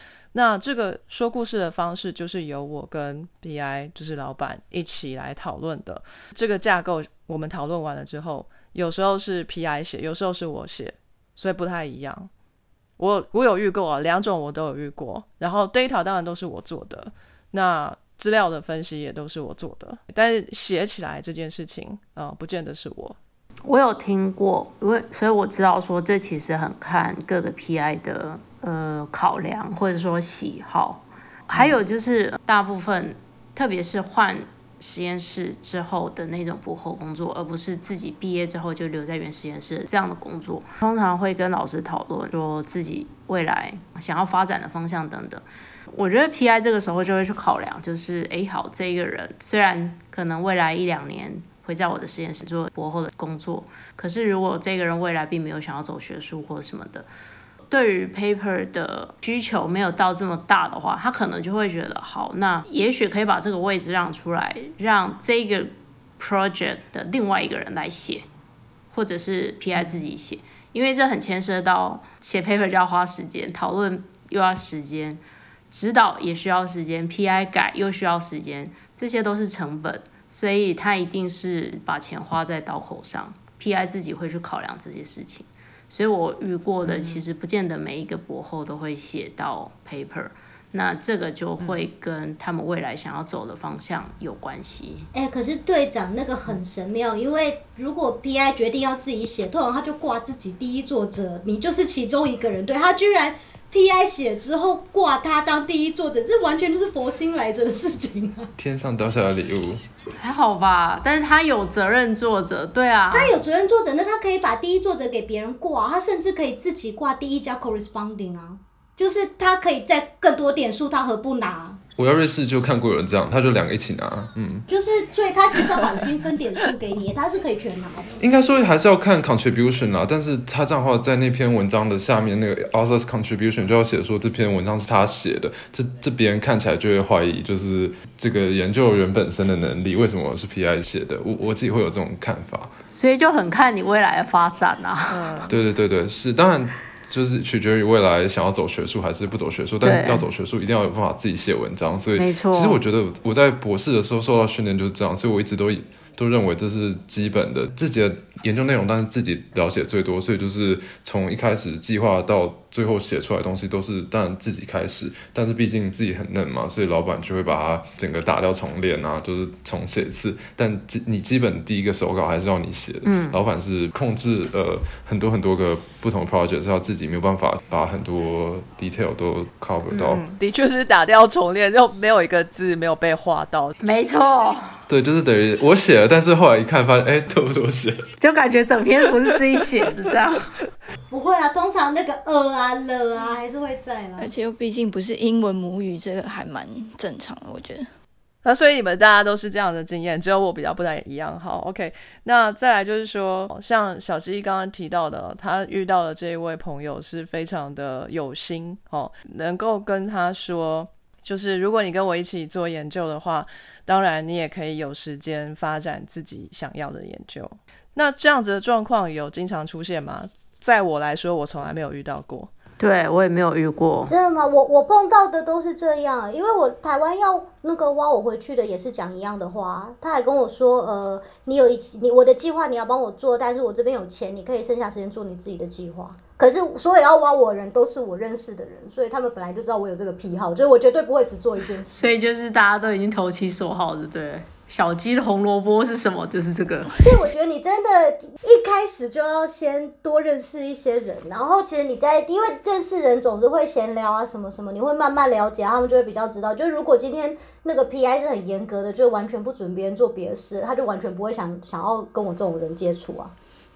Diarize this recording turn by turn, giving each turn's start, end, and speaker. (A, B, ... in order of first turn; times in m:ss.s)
0:00.3-0:12.3 A
0:13.0-0:23.2 A
0:23.6-0:57.0 B
0:57.7-1:08.2 B
1:08.9-1:35.1 B
1:26.8-1:27.2 A
1:31.6-1:31.8 A
1:35.1-1:48.5 C
1:48.6-1:49.8 D
1:50.2-1:53.4 B
1:53.1-2:01.8 C
2:02.0-2:04.6 D
2:04.7-2:08.2 C
2:08.2-2:22.7 D
2:22.9-2:25.4 B
2:25.1-2:25.5 A
2:25.5-3:00.2 D
2:29.8-2:30.3 B
2:32.2-2:32.8 B
2:53.0-2:53.4 B
2:59.9-3:03.7 A
3:03.8-3:04.6 B
3:04.9-3:08.1 D
3:08.2-3:10.5 B
3:11.1-3:14.3 C
3:14.2-3:17.9 E
3:18.4-3:42.5 A
3:42.8-3:44.1 B
3:44.0-4:02.0 C
4:01.9-4:07.0 B
4:07.0-4:23.3 C